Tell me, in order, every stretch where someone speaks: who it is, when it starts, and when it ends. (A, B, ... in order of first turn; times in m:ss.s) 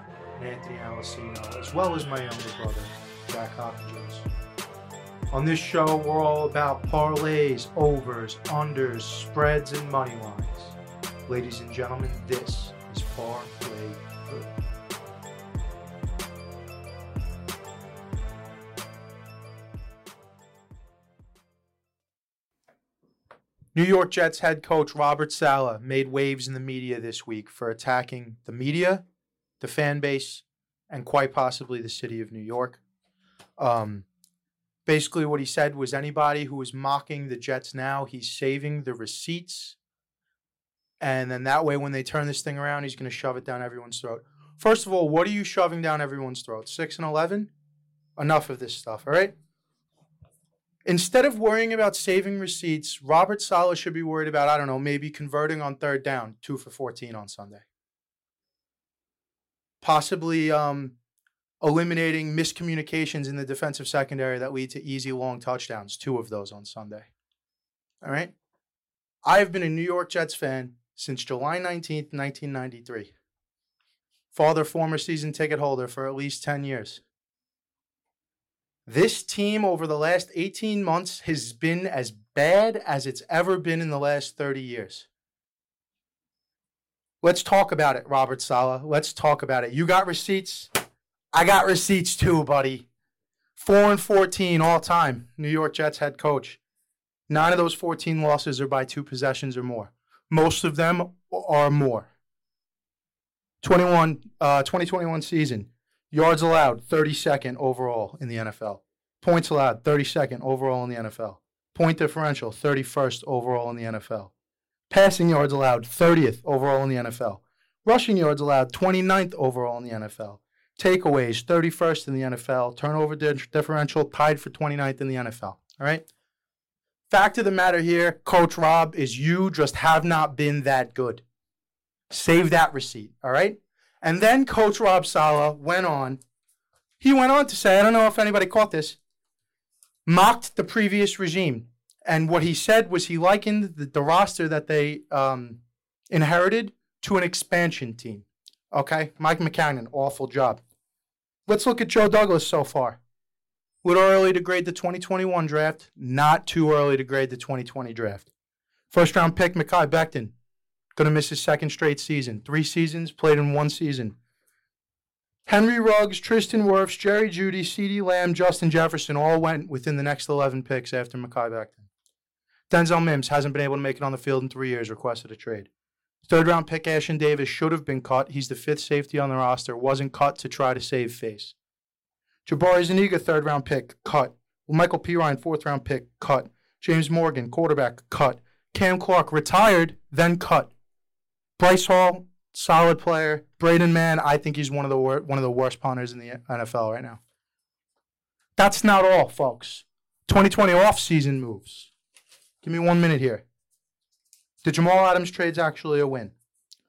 0:00.4-0:04.3 A
0:05.3-0:10.8 A
0:11.3-0:14.5 A
0:23.7-0:29.0 A
0:29.6-0:32.8 A
0:33.6-0:34.0 A
0:34.8-0:39.8 A
0:41.0-0:47.5 A
0:48.2-0:49.3 A
0:50.8-0:57.6 A
0:59.8-1:00.9 A
1:01.6-1:07.1 A
1:08.0-1:08.3 A
1:09.2-1:13.1 A
1:14.3-1:17.0 A
1:18.8-1:25.1 A
1:27.2-1:30.7 A
1:31.3-1:32.9 A
1:33.6-1:36.6 A
1:37.3-1:42.1 A
1:43.6-1:54.3 A
1:54.9-2:06.0 A
2:07.1-2:11.2 A
2:12.1-2:16.2 A
2:17.0-2:19.0 A
2:20.0-2:25.6 A
2:26.1-2:30.6 A
2:31.5-2:33.0 A
2:33.8-2:38.3 A
2:38.9-2:40.3 A
2:41.0-2:44.1 A
2:45.5-2:51.9 A
2:52.7-2:55.7 A
2:56.3-3:01.5 A
3:02.4-3:10.7 A
3:11.6-3:17.2 A
3:18.6-3:21.9 A
3:22.6-3:23.4 A
3:24.6-3:26.3 A